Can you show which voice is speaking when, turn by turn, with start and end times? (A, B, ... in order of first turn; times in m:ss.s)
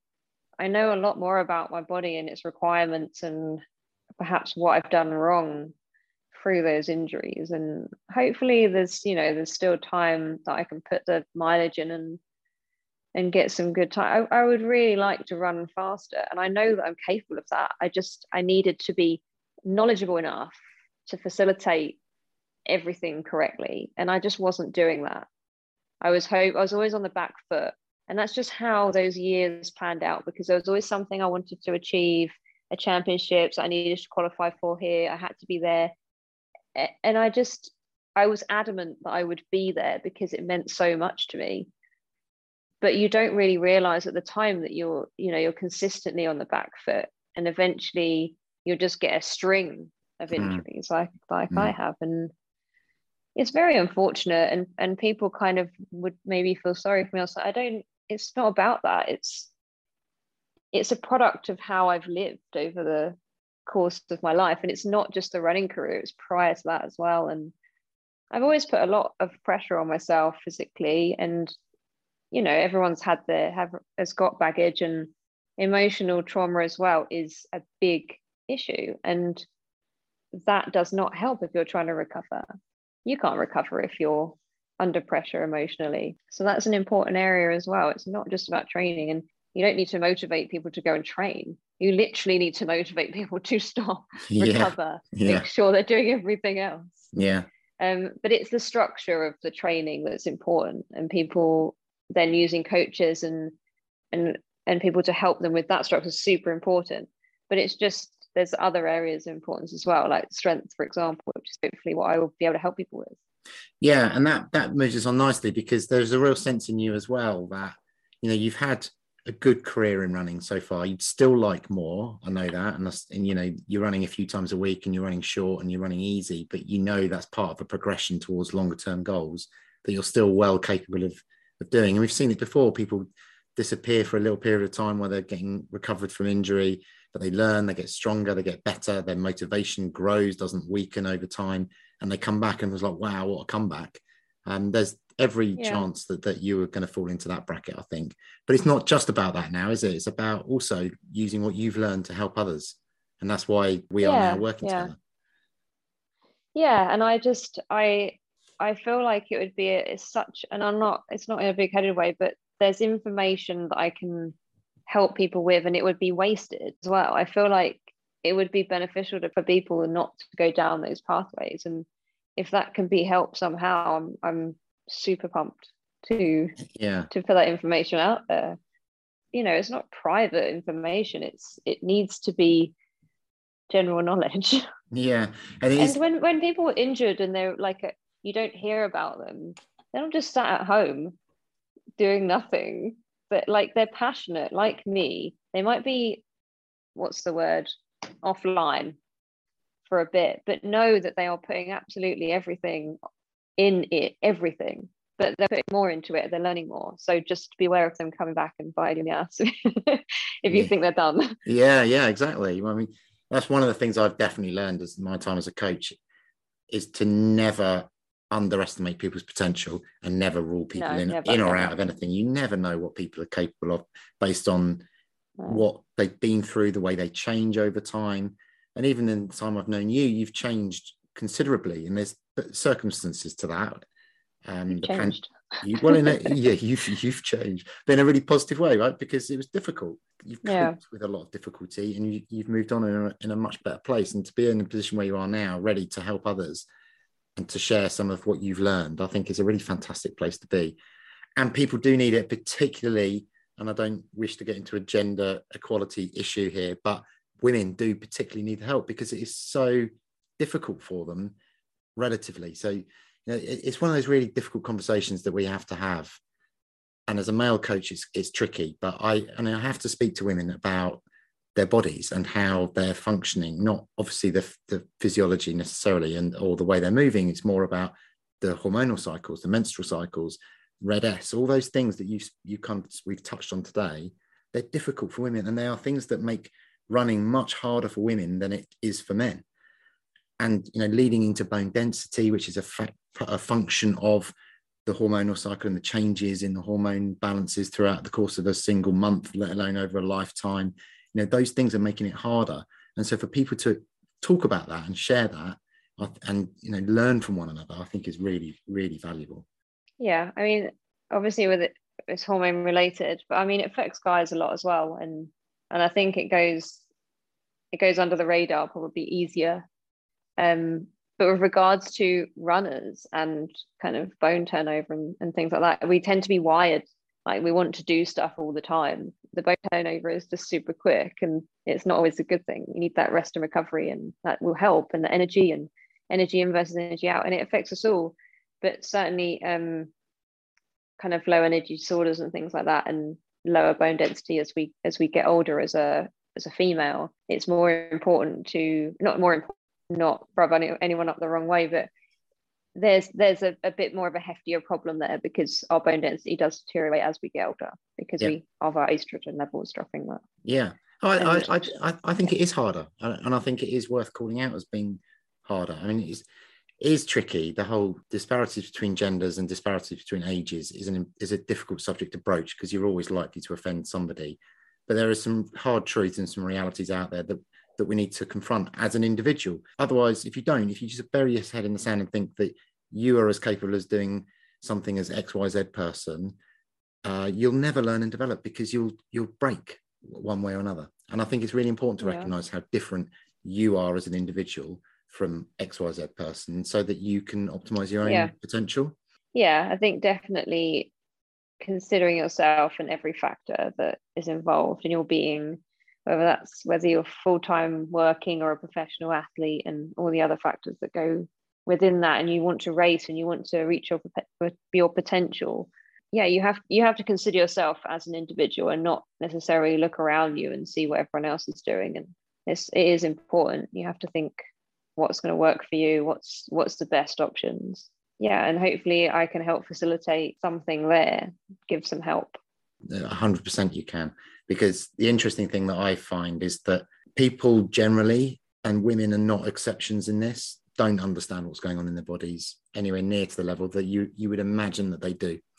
0:00.6-0:03.6 A
0:04.2-0:05.7 A
0:06.3-0:12.2 A
0:13.1-0:22.0 A
0:22.7-0:25.3 A
0:26.0-0:35.9 A
0:36.8-0:41.7 A
0:42.8-0:52.3 A
0:50.4-0:50.6 B
0:53.4-0:59.5 A
1:00.7-1:07.5 A
1:08.3-1:11.6 A
1:12.3-1:19.5 A
1:20.3-1:22.5 A
1:23.0-1:37.1 A
1:34.3-1:35.5 B
1:37.1-1:37.5 B
1:37.8-1:43.5 A
1:44.1-1:53.2 A
1:53.8-2:35.0 B
2:25.6-2:25.8 A
2:34.0-2:34.9 A
2:36.6-2:44.4 A
2:44.9-2:51.9 A
2:52.4-2:56.6 A
2:56.7-2:57.1 B
2:57.1-2:58.6 A
2:59.3-3:02.7 A
3:03.7-3:04.7 A
3:04.9-3:06.0 B
3:05.8-3:11.1 A
3:12.0-3:16.2 A
3:17.0-3:17.7 A
3:18.2-3:19.0 A
3:19.9-3:23.0 A
3:23.6-3:31.4 A
3:31.4-3:36.0 B
3:36.7-3:44.8 B
3:40.8-3:41.7 A
3:45.4-3:45.6 A
3:45.5-3:53.8 B
3:54.5-4:06.6 B
3:54.7-3:55.3 A
3:55.8-3:56.3 A
4:00.4-4:00.8 A
4:07.4-4:10.8 B
4:11.4-4:19.9 B
4:20.4-4:21.4 B
4:22.0-4:26.2 B
4:27.1-4:31.0 B
4:31.6-4:49.4 B
4:50.4-4:54.3 B
4:54.9-5:09.4 B
5:10.0-5:16.8 A
5:17.7-5:19.6 A
5:20.4-5:39.9 A
5:41.0-5:51.9 A
5:52.8-6:00.2 A
6:00.4-6:06.3 B
6:01.2-6:01.5 A
6:06.8-6:26.4 B
6:27.0-6:39.0 B
6:32.0-6:32.3 A
6:38.0-6:38.3 A
6:39.4-6:40.9 A
6:41.6-7:04.4 A
7:05.0-7:12.4 A
7:12.9-7:25.4 B